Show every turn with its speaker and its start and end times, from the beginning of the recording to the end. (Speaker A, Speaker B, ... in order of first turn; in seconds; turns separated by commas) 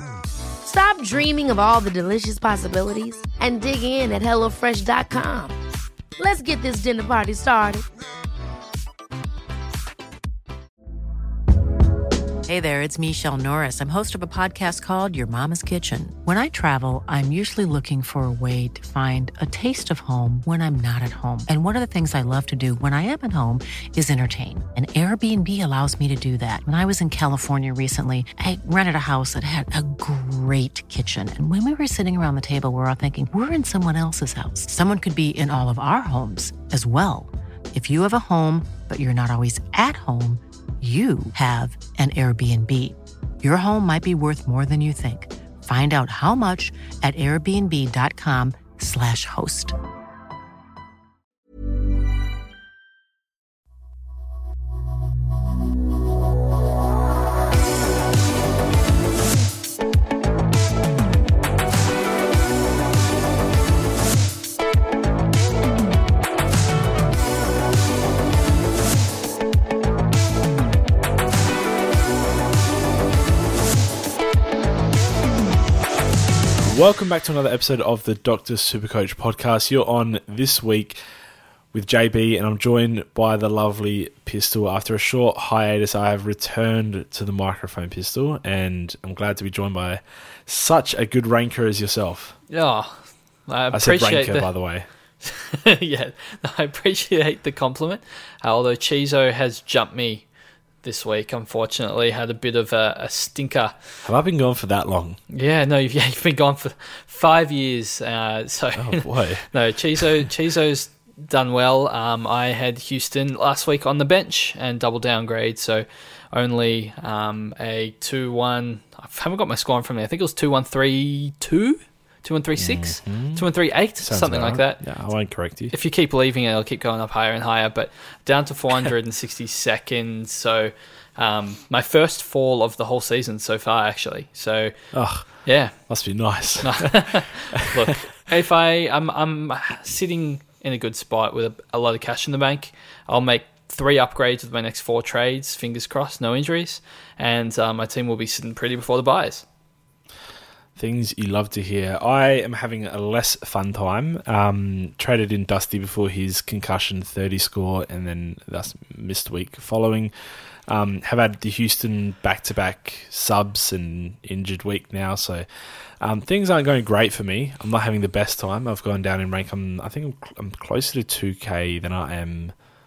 Speaker A: 0.6-5.5, Speaker A: 6.2-7.8, Speaker B: 12.5-49.7, Speaker C: 76.6-81.0, Speaker C: 81.7-92.4, Speaker D: 92.5-94.5, Speaker C: 93.7-94.9, Speaker D: 95.2-100.2, Speaker D: 100.8-103.8, Speaker C: 104.0-105.2, Speaker D: 105.3-124.8, Speaker C: 108.8-109.5, Speaker C: 122.5-123.5, Speaker C: 124.0-125.7, Speaker D: 125.7-134.7, Speaker C: 134.9-137.8, Speaker D: 135.3-136.0, Speaker D: 136.6-149.4, Speaker C: 150.8-160.1, Speaker C: 160.7-165.4, Speaker C: 166.0-172.5